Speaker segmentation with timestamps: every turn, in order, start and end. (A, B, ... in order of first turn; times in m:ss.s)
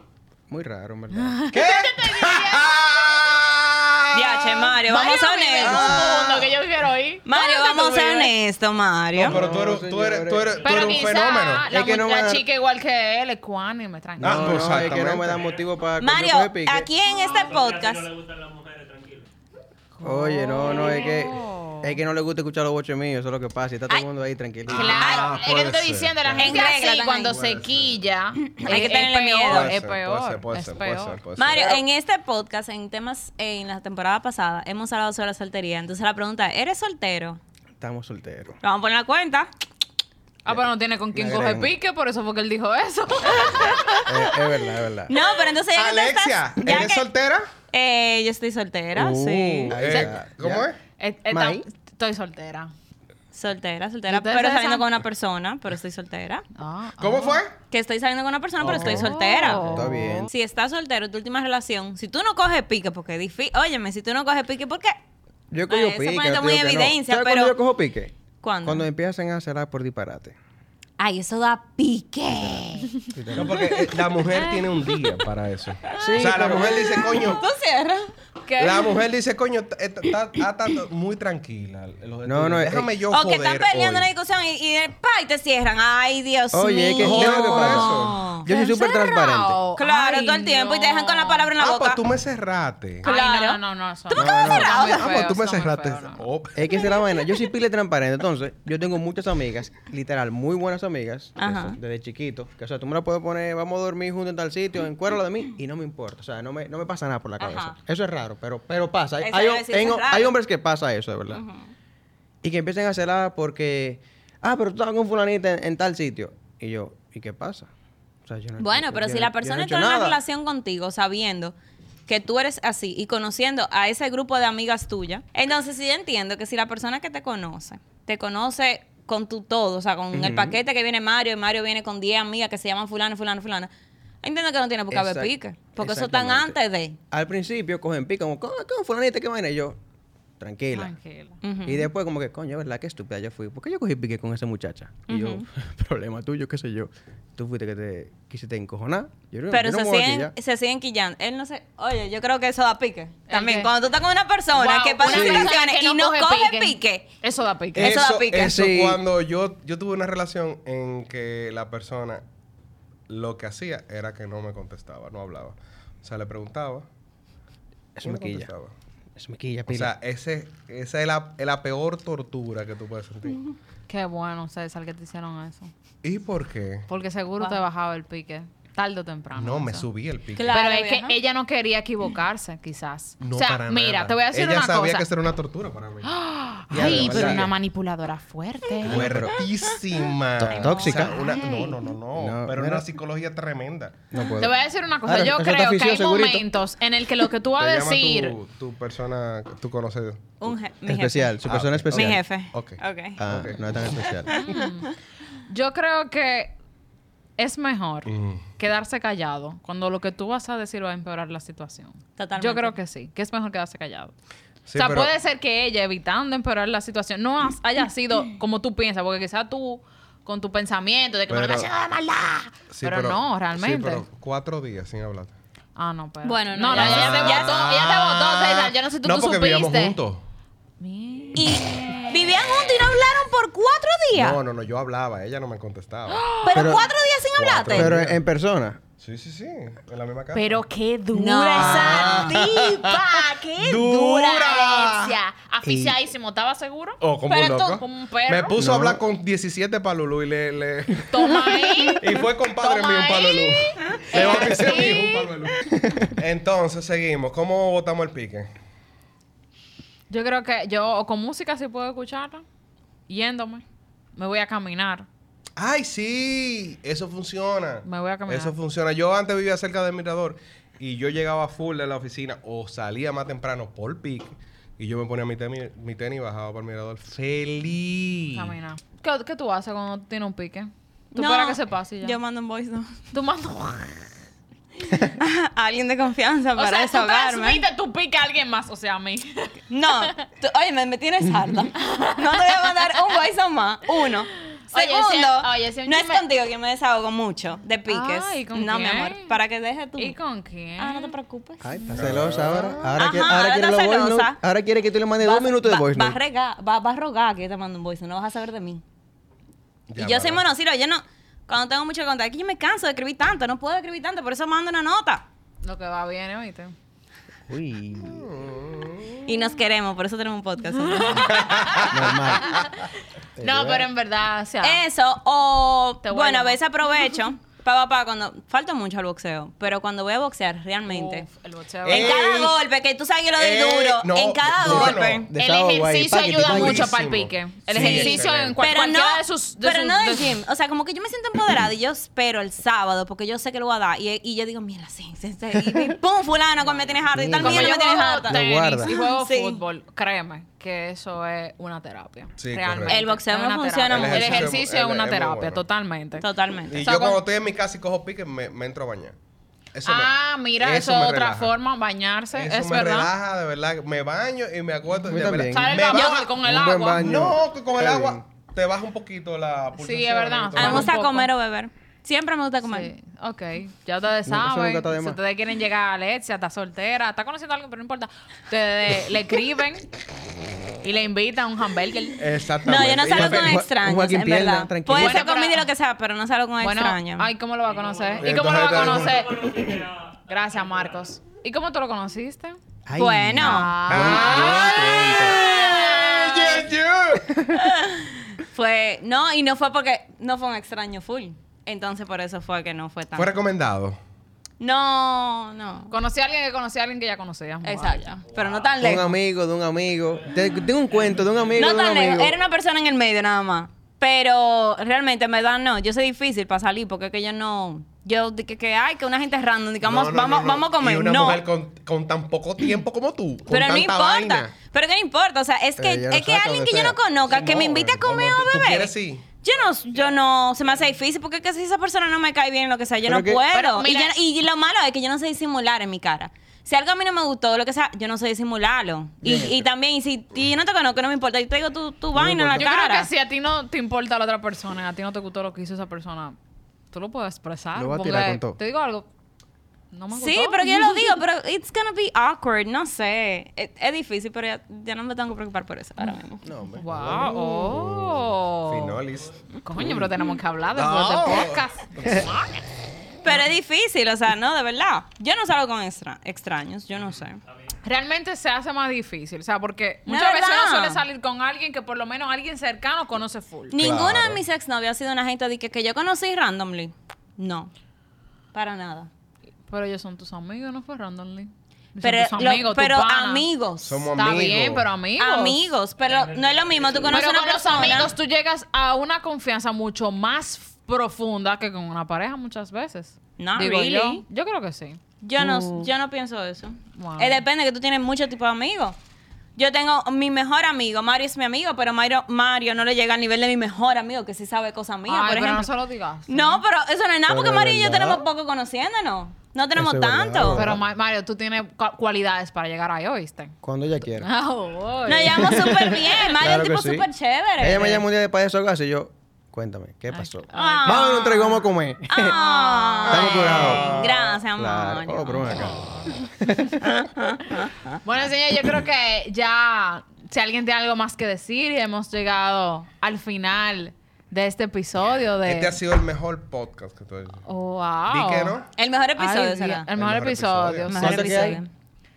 0:00.5-0:01.5 A
0:01.2-0:03.3 B
0:01.5-0:04.8 C
0:04.1-0:06.1 D
0:04.8-0:08.3 B
0:05.6-0:06.4 A
0:05.6-0:06.4 C
0:07.3-0:09.4 D
0:09.2-0:11.7 C
0:09.2-0:10.7 A
0:10.6-0:14.8 B
0:11.6-0:12.4 A
0:14.2-0:16.9 A
0:14.2-0:15.5 C
0:15.4-0:15.6 E
0:16.0-0:18.1 D
0:17.1-0:19.3 E
0:20.0-0:22.0 B
0:20.0-0:25.1 A
0:20.8-0:21.1 D
0:24.7-0:26.7 C
0:24.7-0:31.2 B
0:25.0-0:25.4 D
0:26.4-0:27.4 D
0:27.2-0:28.0 C
0:28.6-0:29.8 D
0:29.5-0:31.8 C
0:31.4-0:37.4 D
0:37.8-0:38.6 A
0:38.6-0:39.5 D
0:40.4-0:44.1 B
0:41.1-0:41.7 A
0:44.1-0:45.2 A
0:45.1-0:47.1 D
0:45.7-0:47.5 C
0:47.7-0:50.1 D
0:49.0-0:50.7 A
0:49.4-0:50.8 C
0:51.0-0:52.7 B
0:51.3-0:51.6 A
0:53.3-0:56.5 D
0:54.1-0:54.9 B
0:56.6-0:57.4 B
0:57.0-0:57.6 C
0:57.7-1:05.0 D
0:58.6-0:59.7 C
0:58.7-0:59.0 A
0:58.8-1:00.3 B
0:59.6-1:00.3 A
1:05.5-1:10.4 A
1:05.7-1:07.6 D
1:08.4-1:08.9 D
1:11.0-1:13.0 D
1:13.1-1:13.7 A
1:13.3-1:17.4 C
1:16.0-1:17.0 A
1:16.5-1:18.1 D
1:18.4-1:19.0 B
1:18.6-1:24.1 C
1:22.2-1:22.9 A
1:23.1-1:28.5 D
1:26.5-1:29.6 A
1:27.0-1:28.2 C
1:28.4-1:31.5 B
1:29.8-1:32.0 D
1:31.6-1:33.1 C
1:33.0-1:35.3 D
1:33.0-1:36.2 B
1:34.2-1:34.7 A
1:34.5-1:36.6 C
1:36.6-1:51.4 A
1:41.4-1:41.8 D
1:47.4-1:47.8 D
1:49.2-1:50.3 D
1:51.3-1:51.7 D
1:52.4-1:57.7 A
1:58.3-2:00.2 A
1:58.6-2:01.5 D
2:02.1-2:13.7 D
2:10.1-2:10.6 A
2:14.2-2:17.0 D
2:14.9-2:16.6 A
2:17.1-2:19.8 A
2:20.4-2:20.9 A
2:20.7-2:21.4 B
2:21.4-2:21.9 D
2:21.6-2:30.3 A
2:25.1-2:25.5 D
2:29.5-2:37.1 D
2:33.3-2:33.7 B
2:34.5-2:38.0 B
2:35.1-2:35.5 A
2:37.8-2:38.6 D
2:37.8-2:42.2 C
2:38.3-2:39.0 A
2:43.1-2:46.9 C
2:48.0-2:48.5 A
2:48.0-2:48.7 C
2:49.2-2:49.9 A
2:49.7-2:53.4 C
2:53.9-2:55.7 B
2:56.0-2:56.9 C
2:56.9-2:59.9 B
2:59.3-3:00.6 C
3:00.4-3:01.2 D
3:00.5-3:05.1 B
3:03.2-3:06.1 C
3:06.0-3:09.2 B
3:06.7-3:07.5 A
3:06.7-3:07.5 C
3:08.8-3:09.4 A
3:08.8-3:14.0 C
3:10.4-3:11.2 A
3:10.7-3:11.8 B
3:12.2-3:12.9 A
3:14.1-3:16.5 A
3:14.4-3:18.4 B
3:17.6-3:20.2 C
3:20.4-3:21.4 D
3:20.9-3:22.2 A
3:21.4-3:23.6 C
3:21.9-3:23.2 D
3:23.2-3:24.3 A
3:24.3-3:24.9 D
3:24.3-3:24.9 B
3:25.5-3:26.6 B
3:27.4-3:34.1 B
3:28.1-3:28.5 C
3:32.2-3:32.7 D
3:34.7-3:35.1 C
3:34.8-3:44.0 B
3:41.3-3:41.7 C
3:42.7-3:45.3 C
3:45.8-3:50.0 B
3:46.2-3:47.7 D
3:46.7-3:50.2 C
3:50.8-3:52.4 B
3:51.4-3:54.4 D
3:54.1-3:56.3 C
3:56.1-3:56.7 B
3:56.4-3:57.9 D
3:56.6-3:56.9 A
3:57.3-3:58.2 C
3:57.7-3:58.8 A
3:59.0-4:00.6 C
4:00.3-4:08.6 B
4:01.1-4:02.6 D
4:01.6-4:05.2 C
4:05.7-4:06.0 A
4:07.0-4:11.3 C
4:08.6-4:09.0 A
4:11.1-4:15.3 B
4:11.9-4:18.5 C
4:15.7-4:16.1 A
4:20.1-4:22.4 B
4:23.1-4:23.6 B
4:24.2-4:25.1 B
4:25.6-4:38.5 C
4:27.8-4:28.6 B
4:38.3-4:42.2 B
4:41.2-4:42.9 D
4:43.1-4:44.1 B
4:45.1-4:47.6 D
4:46.6-4:50.2 B
4:49.7-5:00.2 D
4:51.8-4:52.9 B
4:54.7-4:56.2 B
4:57.9-4:59.4 B
5:00.0-5:01.1 B
5:00.8-5:01.6 D
5:01.6-5:06.2 A
5:01.9-5:02.9 C
5:03.0-5:04.4 D
5:05.2-5:08.8 D
5:09.9-5:10.4 C
5:10.0-5:15.2 D
5:15.6-5:16.7 B
5:17.5-5:18.3 A
5:18.1-5:19.3 C
5:19.2-5:21.4 D
5:20.8-5:22.7 B
5:21.1-5:22.4 C
5:21.9-5:22.6 A
5:23.4-5:23.9 A
5:23.4-5:24.8 B
5:24.6-5:31.3 D
5:26.0-5:26.6 B
5:30.9-5:32.3 B
5:31.8-5:32.6 C
5:31.8-5:35.3 D
5:33.4-5:35.3 C
5:34.6-5:37.0 A
5:35.4-5:40.3 B
5:36.4-5:38.6 C
5:37.8-5:38.2 A
5:37.8-5:49.6 D
5:47.1-5:48.9 A
5:47.3-5:57.2 B
5:52.4-5:53.0 C
5:52.9-5:54.6 D
5:53.9-5:55.6 C
5:56.2-5:56.9 D
5:56.7-5:59.2 C
5:59.7-6:01.6 C
5:59.8-6:03.1 B
6:02.3-6:06.4 C
6:05.1-6:08.2 A
6:05.4-6:07.0 B
6:07.0-6:10.9 C
6:09.8-6:11.3 B
6:10.6-6:12.9 D
6:12.6-6:19.9 B
6:14.3-6:15.2 A
6:20.8-6:22.2 B
6:22.2-6:23.6 C
6:22.6-6:27.3 D
6:23.1-6:25.2 A
6:24.9-6:25.7 B
6:26.6-6:29.7 B
6:27.7-6:31.1 E
6:28.2-6:29.3 C
6:30.3-6:32.6 B
6:32.9-6:35.4 A
6:33.0-6:36.7 D
6:33.4-6:36.3 B
6:33.9-6:37.3 C
6:37.5-6:43.3 D
6:43.2-6:44.0 C
6:44.6-6:45.9 D
6:45.9-6:48.2 B
6:47.6-6:49.1 D
6:48.3-6:49.0 E
6:48.8-6:52.4 A
6:50.1-6:52.0 E
6:51.6-7:01.4 D
6:59.8-7:04.5 C
7:03.5-7:23.1 D
7:05.8-7:07.0 A
7:07.3-7:09.2 C
7:13.0-7:13.4 A
7:13.5-7:14.1 B
7:19.2-7:19.7 A
7:22.1-7:22.7 A
7:22.6-7:26.4 B
7:26.9-7:29.1 B
7:27.8-7:28.6 A
7:29.9-7:31.2 B
7:30.1-7:36.4 D
7:36.4-7:37.8 A
7:36.8-7:39.0 B
7:37.0-7:40.0 C
7:39.6-7:42.7 B
7:40.7-7:42.2 C
7:43.2-7:47.4 D
7:47.8-7:53.8 B
7:50.1-7:51.0 D
7:53.7-7:57.7 D
7:53.8-7:54.4 C
7:58.5-7:59.1 D
7:59.7-8:03.5 B
8:02.0-8:04.0 D
8:03.8-8:04.9 C
8:04.1-8:05.7 B
8:05.2-8:08.1 D
8:06.0-8:08.1 E
8:07.0-8:15.0 B
8:13.4-8:14.2 D
8:15.2-8:19.0 D
8:15.4-8:15.8 A
8:16.9-8:17.4 B
8:19.6-8:25.7 D
8:25.1-8:26.6 B
8:26.3-8:30.7 D
8:27.3-8:28.3 A
8:29.8-8:30.8 A
8:30.5-8:36.1 B
8:33.6-8:34.3 A
8:35.1-8:38.0 D
8:35.4-8:42.4 A
8:40.1-8:41.7 B
8:40.5-8:41.4 D
8:42.1-8:45.6 D
8:42.3-8:43.8 B
8:43.1-8:43.9 A
8:43.2-8:44.4 C
8:44.6-8:47.1 A
8:45.4-8:46.1 B
8:47.2-8:48.0 D
8:48.0-8:55.8 B
8:55.4-8:57.4 C
8:57.5-8:58.6 B
8:58.1-8:58.7 C
8:58.8-8:59.9 D
8:59.2-9:01.6 B
8:59.9-9:00.9 C
9:00.9-9:01.7 D
9:01.0-9:01.6 A